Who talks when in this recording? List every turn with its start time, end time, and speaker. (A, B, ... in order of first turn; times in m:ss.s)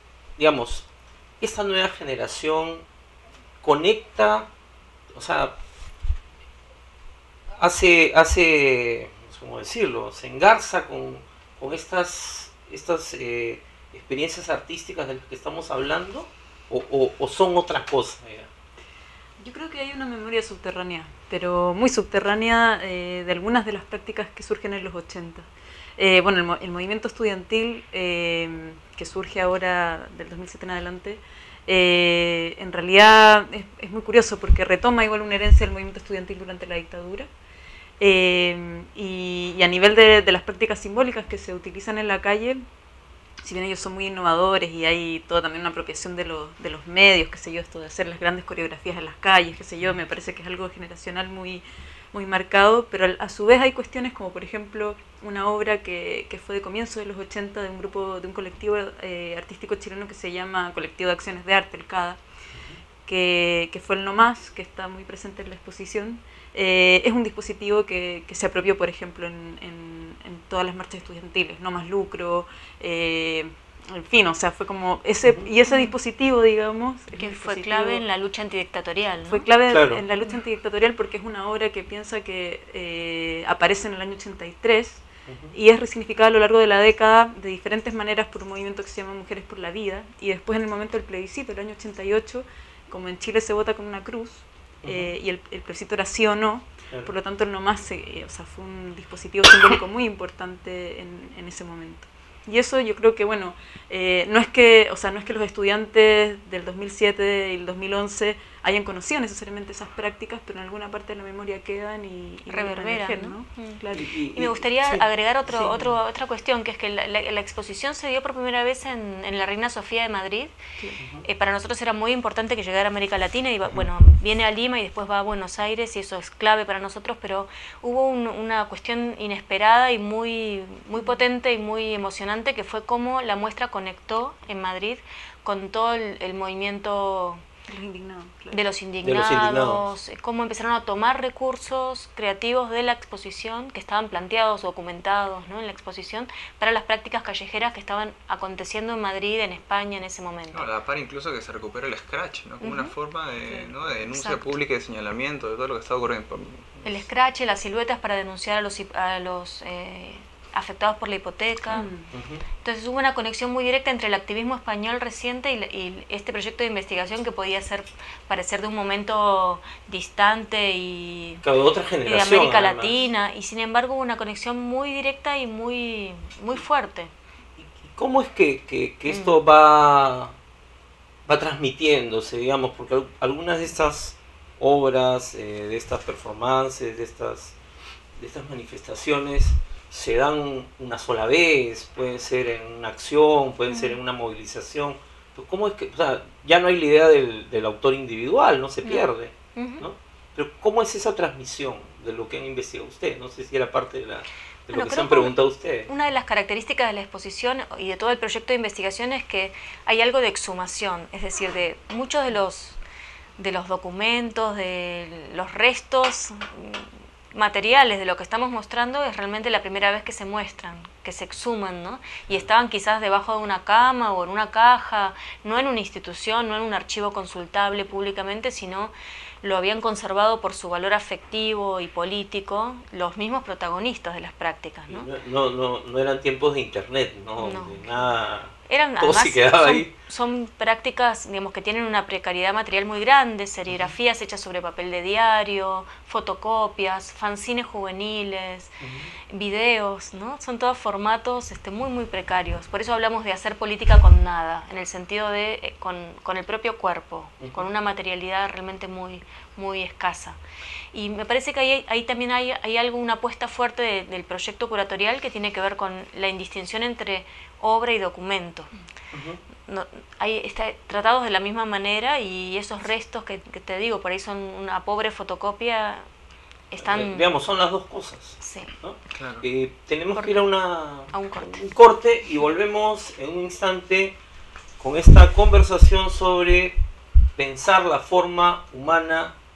0:00.4-0:00.9 A
0:01.4-0:02.8 A
0:03.6-0:04.5 A
0:05.1-0:05.6 A
0:07.6-0:18.5 A
0:19.4-0:37.3 B
0:38.0-0:42.6 B
0:43.4-1:02.2 B
1:02.5-1:02.8 A
1:03.0-1:18.0 B
1:15.2-1:15.5 A
1:15.7-1:15.9 C
1:17.2-1:19.4 C
1:19.3-1:54.1 B
1:19.7-1:20.0 A
1:25.2-1:25.5 A
1:34.8-1:35.1 A
1:52.5-2:00.5 C
1:53.9-1:54.6 A
1:54.8-1:55.8 B
2:01.0-2:01.2 A
2:01.2-2:17.4 C
2:17.7-2:18.6 B
2:18.5-2:30.6 C
2:19.0-2:19.9 A
2:30.5-2:36.8 D
2:31.4-2:34.4 B
2:32.6-2:32.9 C
2:34.1-2:34.4 C
2:35.3-2:36.8 B
2:36.8-2:41.9 C
2:41.7-2:42.1 B
2:42.1-2:42.4 A
2:42.6-2:51.4 C
2:51.4-2:53.0 A
2:52.0-2:57.1 C
2:57.6-3:00.3 A
2:59.1-2:59.4 C
3:01.2-3:07.6 A
3:08.2-3:25.9 A
3:13.7-3:14.0 C
3:18.8-3:19.9 C
3:24.7-3:32.8 C
3:33.4-3:55.1 C
3:54.9-3:59.9 A
3:57.4-3:58.0 C
3:58.7-4:08.8 C
4:03.7-4:03.9 A
4:08.8-4:09.1 A
4:09.3-4:20.4 C
4:17.4-4:17.7 A
4:20.9-4:28.7 C
4:29.1-4:29.4 A
4:29.6-4:36.1 C
4:36.7-4:37.3 C
4:36.8-4:44.2 A
4:38.4-4:38.7 C
4:40.1-4:40.5 C
4:41.1-4:41.7 C
4:44.8-4:46.8 A
4:47.4-4:49.4 A